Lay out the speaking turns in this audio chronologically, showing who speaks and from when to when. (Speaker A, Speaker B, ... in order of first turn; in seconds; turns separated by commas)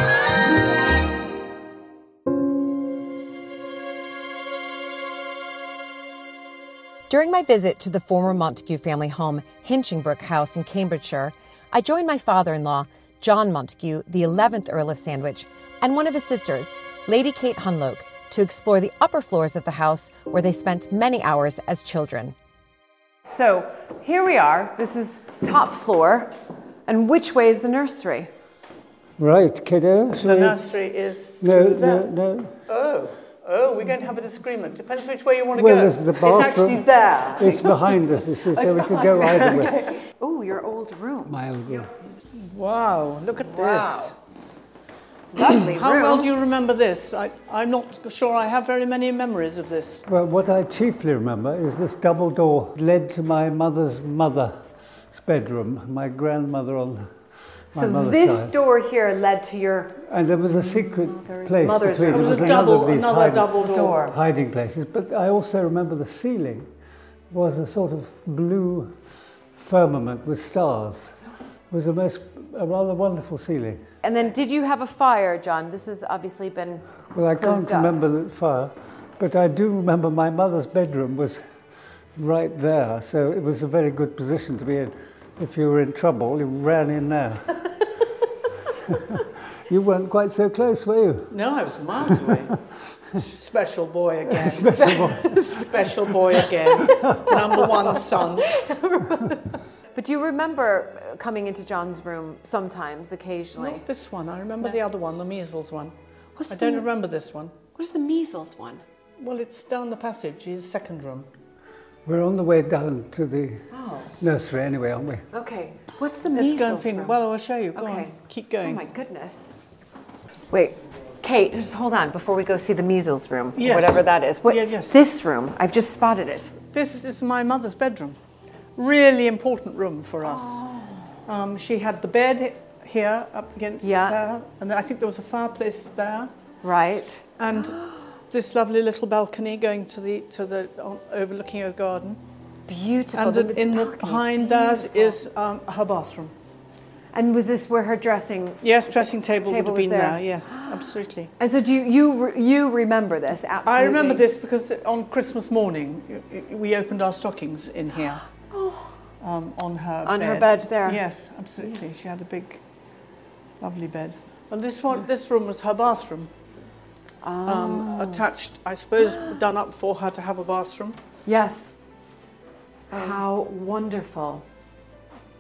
Speaker A: 7.1-22.4, Speaker A: 23.3-26.3, Speaker A: 26.9-28.3, Speaker B: 29.2-30.6, Speaker C: 30.2-32.1, Speaker B: 31.4-32.5, Speaker C: 32.7-40.0, Speaker B: 35.6-36.8, Speaker B: 37.4-39.9, Speaker A: 40.1-41.4, Speaker B: 41.3-41.9, Speaker C: 42.3-44.1, Speaker A: 43.4-44.1, Speaker A: 45.3-46.3, Speaker C: 45.4-50.0, Speaker B: 50.1-54.6, Speaker B: 55.1-57.1, Speaker B: 57.7-58.5, Speaker A: 57.8-60.0, Speaker B: 60.1-66.7, Speaker A: 60.6-62.6, Speaker C: 62.1-64.0, Speaker A: 63.6-64.2, Speaker B: 67.3-68.9, Speaker B: 69.6-71.2, Speaker B: 71.7-73.8, Speaker A: 74.0-78.0, Speaker B: 77.1-81.4, Speaker B: 82.2-87.6, Speaker B: 88.8-91.3, Speaker C: 91.3-92.6, Speaker C: 93.1-98.5, Speaker B: 94.3-95.4, Speaker A: 94.7-95.7, Speaker A: 96.3-97.7, Speaker B: 96.8-97.4, Speaker A: 98.4-103.8, Speaker C: 103.6-105.9, Speaker A: 106.4-106.9, Speaker C: 106.5-107.5, Speaker A: 107.8-108.8, Speaker C: 109.2-111.3, Speaker B: 112.1-115.2, Speaker A: 113.7-114.2, Speaker A: 115.3-117.2, Speaker C: 116.3-118.8, Speaker A: 117.8-119.6, Speaker A: 120.5-126.6, Speaker C: 123.6-125.0, Speaker C: 126.7-128.2, Speaker C: 128.8-130.6, Speaker A: 130.2-131.2, Speaker C: 131.3-136.3, Speaker A: 133.8-134.2, Speaker A: 136.6-137.8, Speaker C: 137.4-142.2, Speaker A: 142.7-145.2, Speaker C: 143.2-146.3, Speaker A: 147.1-154.3, Speaker C: 148.6-151.3, Speaker C: 153.7-158.3, Speaker A: 158.5-158.9, Speaker C: 159.2-162.6, Speaker A: 160.0-161.0, Speaker C: 163.6-166.3, Speaker A: 167.2-168.3, Speaker C: 167.5-171.0, Speaker A: 171.3-171.7, Speaker A: 172.9-174.4